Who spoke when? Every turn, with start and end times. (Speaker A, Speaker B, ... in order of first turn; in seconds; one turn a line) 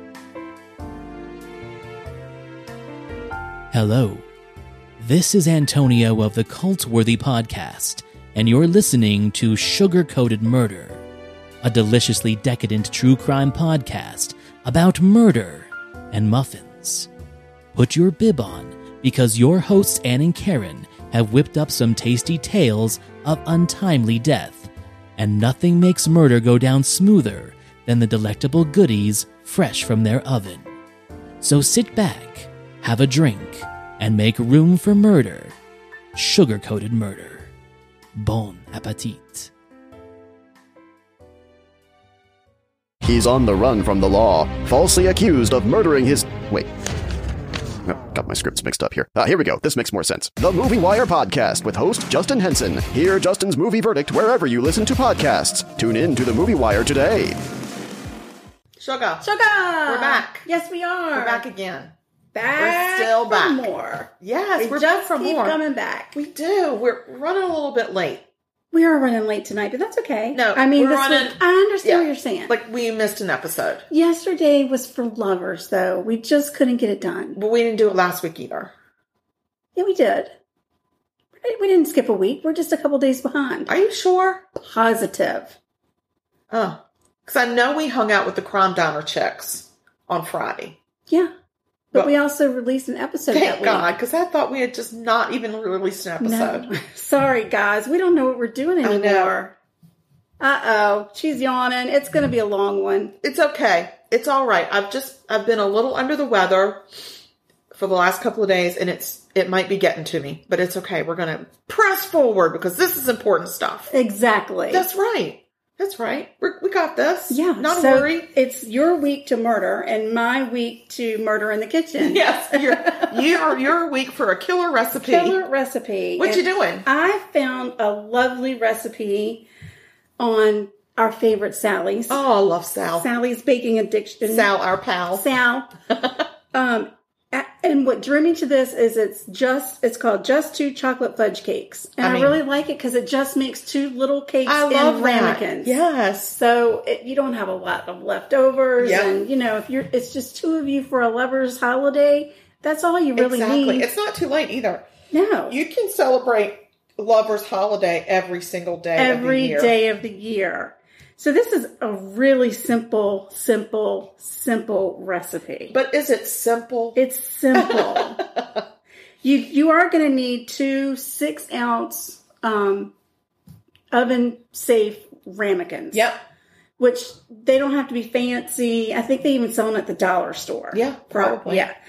Speaker A: 3.7-4.2
Speaker A: 5.0-11.0
Speaker A: 11.6-17.1
Speaker A: 17.7-30.7
Speaker A: 31.4-35.5
Speaker A: 36.1-37.5
Speaker A: 38.1-39.5
Speaker B: 43.0-46.7
Speaker B: 47.8-57.4
Speaker C: 58.8-59.3
Speaker D: 59.2-61.4
Speaker C: 59.8-60.5
Speaker C: 61.1-61.9
Speaker D: 62.3-66.2
Speaker C: 62.5-63.7
Speaker C: 64.2-65.6
Speaker C: 66.1-68.2
Speaker D: 68.7-72.5
Speaker C: 70.3-73.8
Speaker D: 73.9-77.4
Speaker C: 77.3-78.7
Speaker D: 79.8-80.3
Speaker D: 81.4-83.7
Speaker C: 83.7-84.4
Speaker D: 84.5-85.5
Speaker C: 86.5-90.8
Speaker D: 91.9-93.9
Speaker C: 93.3-96.7
Speaker D: 96.2-99.5
Speaker C: 98.8-99.4
Speaker D: 100.4-103.1
Speaker C: 103.2-106.8
Speaker C: 107.7-113.9
Speaker D: 113.9-114.9
Speaker C: 114.7-118.3
Speaker D: 117.3-123.6
Speaker C: 122.0-125.4
Speaker D: 125.0-129.4
Speaker C: 126.2-126.9
Speaker D: 130.2-132.2
Speaker C: 132.1-133.1
Speaker D: 133.0-134.5
Speaker C: 134.3-135.3
Speaker D: 135.1-135.7
Speaker C: 135.9-136.2
Speaker D: 136.5-145.8
Speaker C: 142.0-142.4
Speaker C: 144.4-146.4
Speaker D: 146.3-153.9
Speaker C: 148.8-149.1
Speaker C: 153.2-154.9
Speaker D: 155.1-155.6
Speaker C: 155.5-159.7
Speaker D: 159.0-165.7
Speaker C: 165.7-167.0
Speaker D: 166.9-168.2
Speaker C: 167.5-168.6
Speaker D: 169.2-172.9
Speaker D: 173.9-176.1
Speaker C: 175.9-176.2
Speaker D: 176.8-181.7
Speaker C: 180.7-181.7